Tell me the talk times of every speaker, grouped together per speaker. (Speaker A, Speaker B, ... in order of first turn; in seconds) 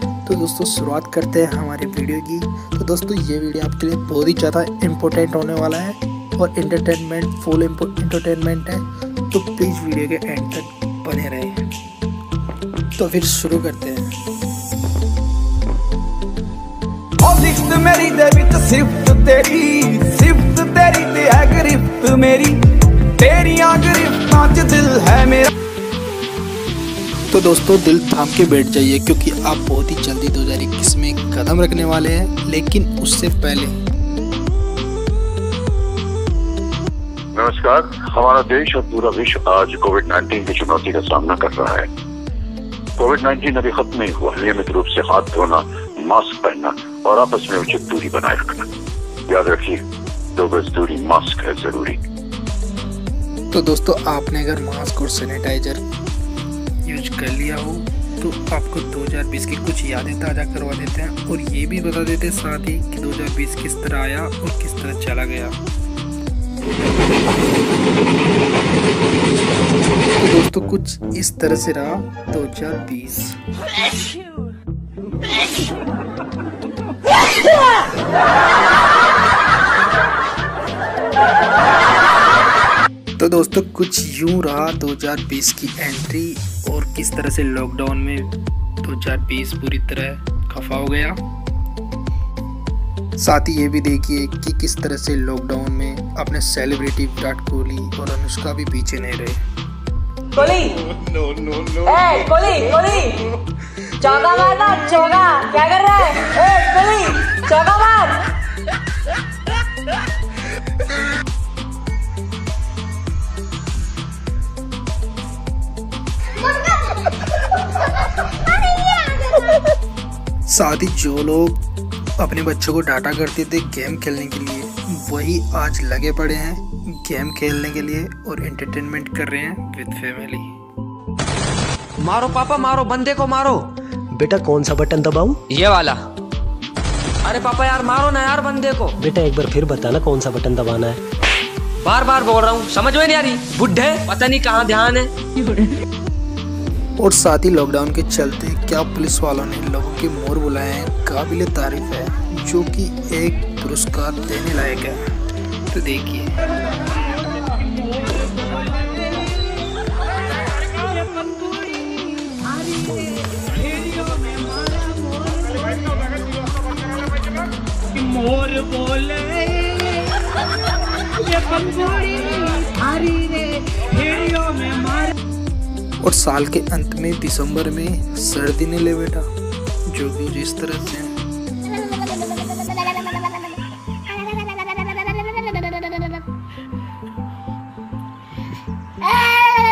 Speaker A: 0.2-11.6, 12.9-14.1, 27.3-33.7, 53.5-55.8, 56.8-65.5, 70.2-73.4, 83.2-91.2, 93.2-99.4, 120.5-121.6, 122.2-130.5, 147.0-155.1, 155.7-156.4, 176.0-179.3, 179.9-181.2
Speaker B: 17.2-25.5
Speaker C: 37.3-41.9, 43.0-48.7, 49.3-49.8, 50.3-52.0
Speaker D: 100.3-100.8, 101.8-103.2, 104.0-108.2
Speaker E: 132.0-133.7, 135.5-136.0, 137.2-138.9, 141.8-145.1
Speaker F: 134.2-135.4, 139.0-141.0
Speaker G: 157.4-159.6, 160.6-166.5, 167.9-170.1, 171.1-175.1